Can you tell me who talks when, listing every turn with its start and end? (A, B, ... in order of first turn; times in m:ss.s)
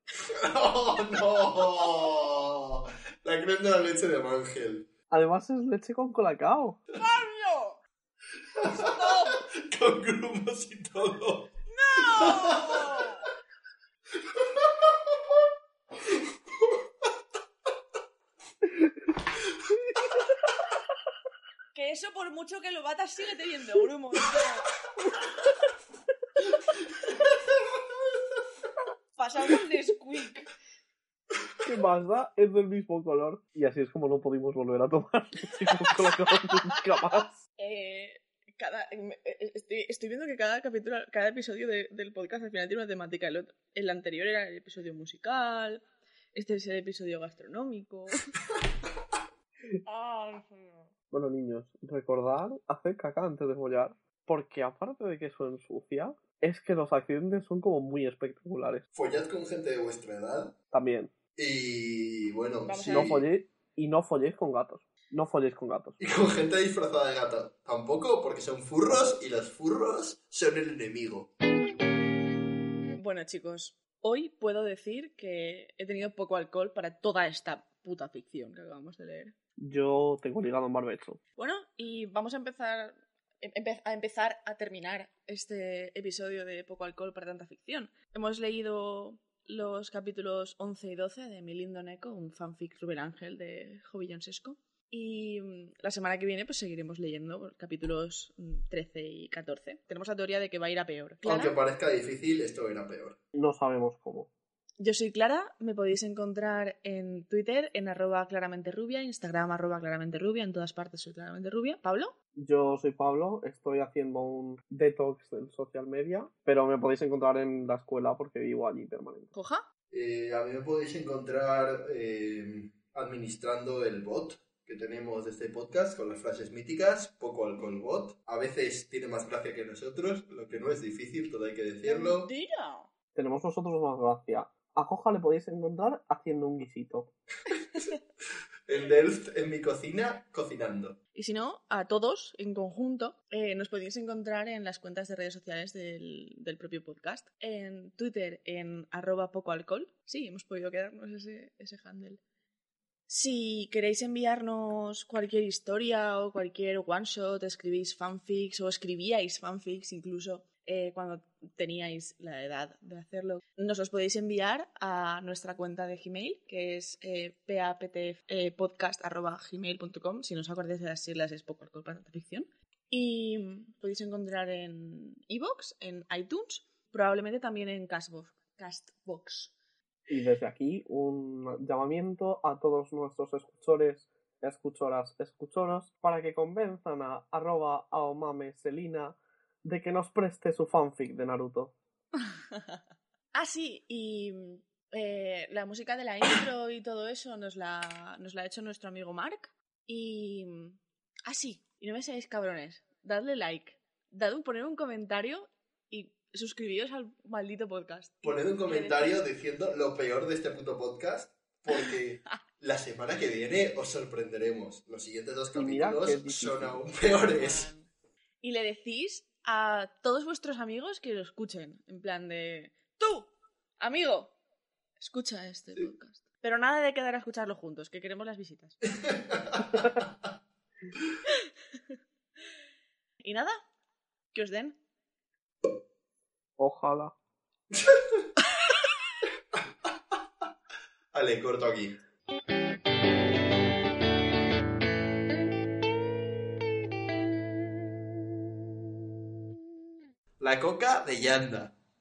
0:00.2-0:04.9 A
0:05.1-0:06.8 B
0:06.9-0:07.8 C
0:08.6-0:13.0 A
0:08.7-0:09.4 C
0:11.7-0:13.2 C
0:21.7-0:24.7 C
0:29.2-0:30.5 C
0:31.6-0:37.4 B
0:37.6-0:48.3 C
0:49.8-0:50.9 C
0:51.1-0:58.8 B
0:59.0-1:00.6 A
1:00.7-1:01.1 B
1:01.4-1:03.3 A
1:02.7-1:03.1 C
1:02.9-1:06.0 B
1:06.0-1:11.3 A
1:12.9-1:19.3 C
1:19.6-1:21.2 B
1:21.4-1:41.6 C
1:41.2-1:43.2 A
1:43.3-1:44.3 B
1:44.8-1:52.1 C
1:52.4-1:59.3 B
1:59.3-1:59.6 C
1:59.9-2:12.3 A
2:11.8-2:12.9 C
2:13.2-2:17.1 B
2:18.7-2:21.0 A
2:21.1-2:32.2 C
2:33.1-2:59.5 C
3:00.1-3:11.7 B
3:13.3-3:29.2 C
3:28.2-3:37.7 A
3:35.6-3:36.8 B
3:37.1-3:37.9 C
3:38.4-3:44.4 C
3:45.0-3:48.8 C
3:49.0-3:49.6 A
3:53.2-3:53.6 C
3:54.3-3:54.8 C
3:56.6-3:57.1 B
3:57.7-3:58.0 A
4:01.1-4:02.0 A
4:10.4-4:11.7 A